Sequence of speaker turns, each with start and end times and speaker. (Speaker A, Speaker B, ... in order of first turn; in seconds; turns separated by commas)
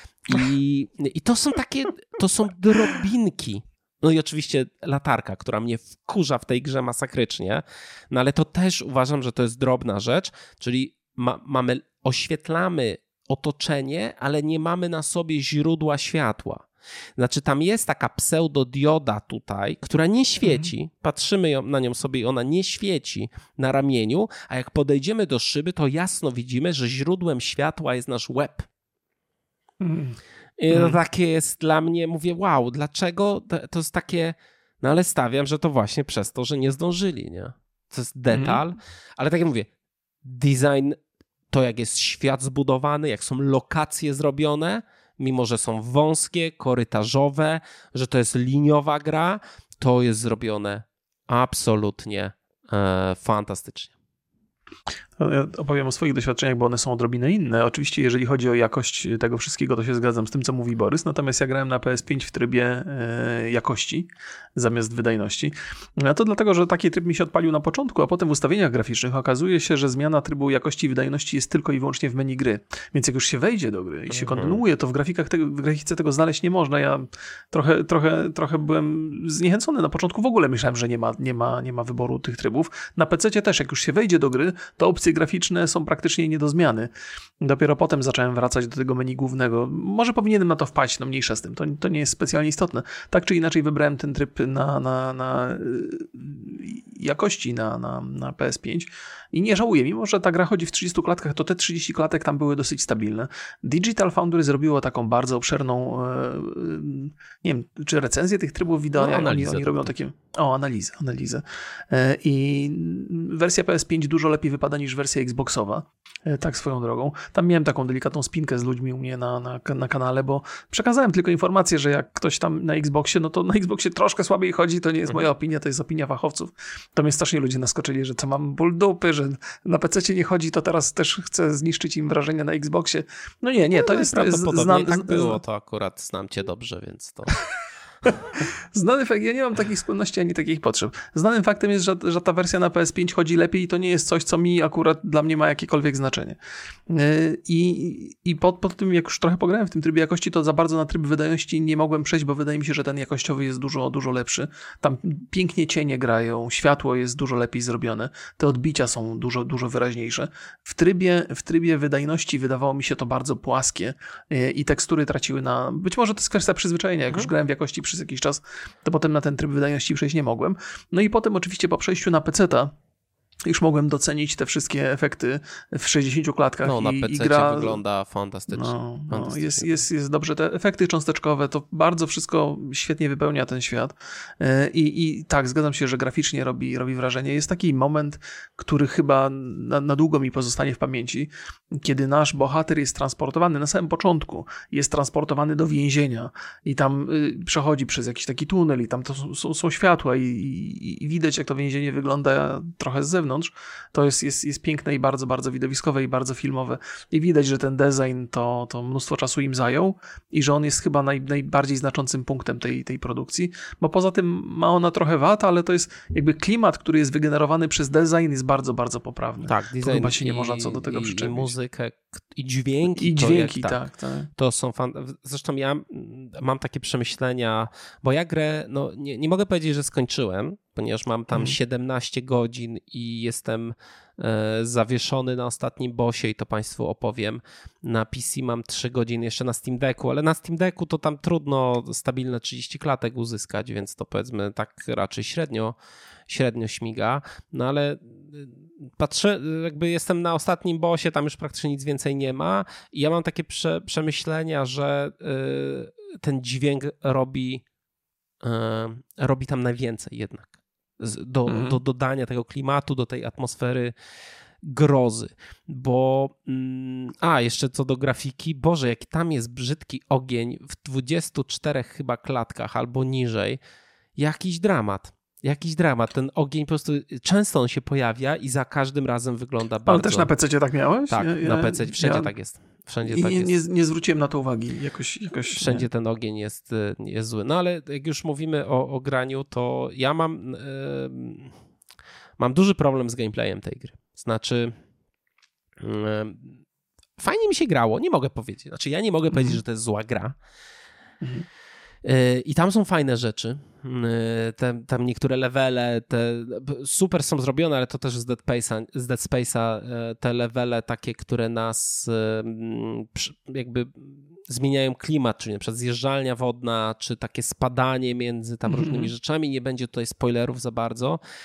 Speaker A: 0.2-28.7, Speaker B: 20.4-20.7, Speaker B: 29.8-30.2, Speaker A: 30.6-39.7, Speaker B: 30.7-31.0, Speaker B: 38.3-38.6, Speaker A: 40.2-41.0, Speaker A: 41.5-53.9, Speaker B: 55.2-86.9, Speaker A: 74.1-74.6, Speaker B: 87.4-135.4, Speaker A: 109.0-109.9, Speaker A: 133.7-137.4, Speaker B: 138.4-146.4, Speaker B: 146.9-172.7, Speaker B: 173.4-177.8, Speaker A: 176.6-179.7, Speaker B: 178.5-221.5, Speaker A: 219.4-223.8, Speaker B: 222.9-224.3, Speaker A: 224.4-245.8, Speaker A: 246.3-257.6, Speaker A: 258.4-263.9, Speaker B: 261.5-261.8, Speaker A: 264.6-273.6, Speaker A: 274.2-280.3, Speaker B: 279.9-282.3, Speaker A: 281.1-283.5, Speaker B: 283.1-285.9, Speaker A: 285.5-291.6, Speaker A: 292.4-294.7, Speaker A: 295.8-296.6, Speaker A: 297.2-300.4, Speaker B: 299.3-299.6, Speaker A: 302.0-321.2, Speaker B: 318.7-319.1